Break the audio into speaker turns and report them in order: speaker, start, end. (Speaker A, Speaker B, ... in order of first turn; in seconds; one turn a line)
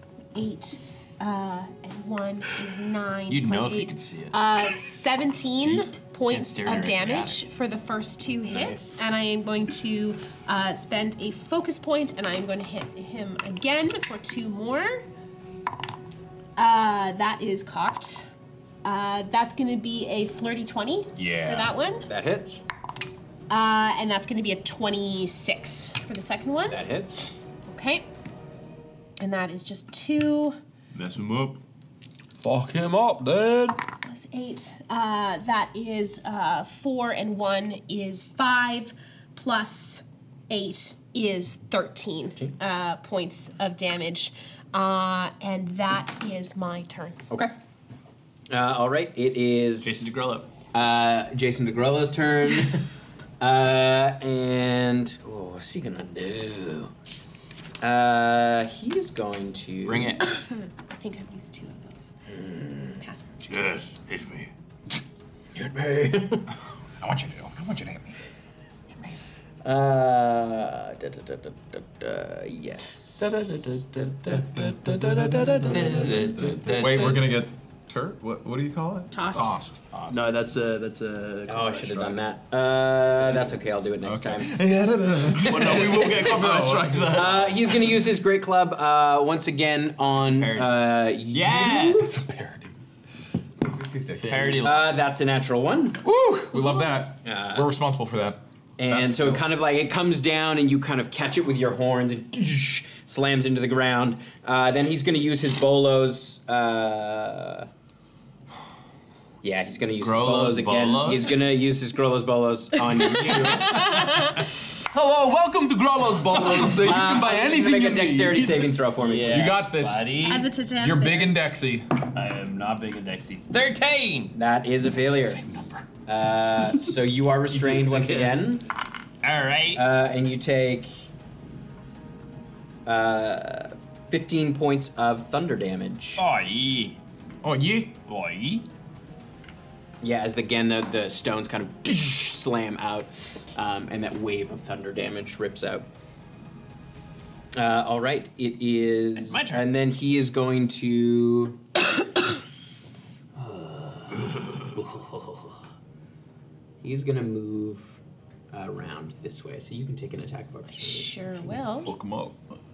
Speaker A: 0.3-15.0
Speaker B: 3.3-4.4
Speaker B: 6.3-7.4
Speaker B: 8.5-8.8
Speaker A: 16.6-18.2
Speaker A: 18.8-22.1
Speaker B: 21.2-21.7
Speaker C: 22.1-22.6
Speaker A: 23.5-26.8
Speaker C: 26.7-27.2
Speaker A: 27.7-28.0
Speaker A: 29.2-30.6
Speaker B: 30.9-31.6
Speaker D: 32.4-33.8
Speaker A: 34.0-47.2
Speaker C: 48.5-50.1
Speaker B: 49.8-50.5
Speaker C: 50.7-52.8
Speaker C: 53.4-56.9
Speaker C: 57.8-60.2
Speaker B: 59.8-60.2
Speaker A: 60.2-62.1
Speaker C: 62.3-63.0
Speaker A: 63.0-63.7
Speaker B: 63.5-64.5
Speaker C: 65.5-66.5
Speaker E: 67.0-68.2
Speaker C: 69.6-73.3
Speaker D: 73.2-76.2
Speaker E: 74.5-79.8
Speaker B: 75.7-77.3
Speaker A: 79.1-79.5
Speaker B: 79.9-80.2
Speaker D: 80.1-82.2
Speaker C: 81.5-84.5
Speaker E: 84.0-87.5
Speaker D: 85.4-87.5
Speaker C: 87.1-92.1
Speaker B: 90.1-92.2
Speaker E: 92.0-92.7
Speaker E: 93.6-94.7
Speaker D: 94.2-94.7
Speaker B: 94.2-95.0
Speaker C: 94.6-96.0
Speaker E: 96.0-99.5
Speaker A: 96.5-96.8
Speaker C: 97.2-97.7
Speaker C: 98.8-107.7
Speaker C: 109.4-114.0
Speaker B: 110.0-111.4
Speaker A: 113.6-114.3
Speaker D: 114.6-118.8
Speaker C: 116.8-119.5
Speaker B: 119.0-120.5
Speaker E: 119.3-122.0
Speaker A: 120.2-121.3
Speaker B: 122.0-124.3
Speaker C: 124.3-125.4
Speaker E: 125.0-125.8
Speaker C: 126.0-128.7
Speaker D: 127.9-128.3
Speaker B: 129.2-129.8
Speaker C: 129.7-131.0
Speaker C: 132.8-136.2
Speaker B: 136.2-137.0
Speaker E: 137.4-137.9
Speaker B: 138.1-138.7
Speaker C: 140.0-145.8
Speaker C: 147.5-151.6
Speaker B: 149.2-149.7
Speaker C: 153.4-155.5
Speaker C: 156.8-158.0
Speaker C: 158.5-161.3
Speaker A: 160.7-161.9
Speaker E: 161.8-162.4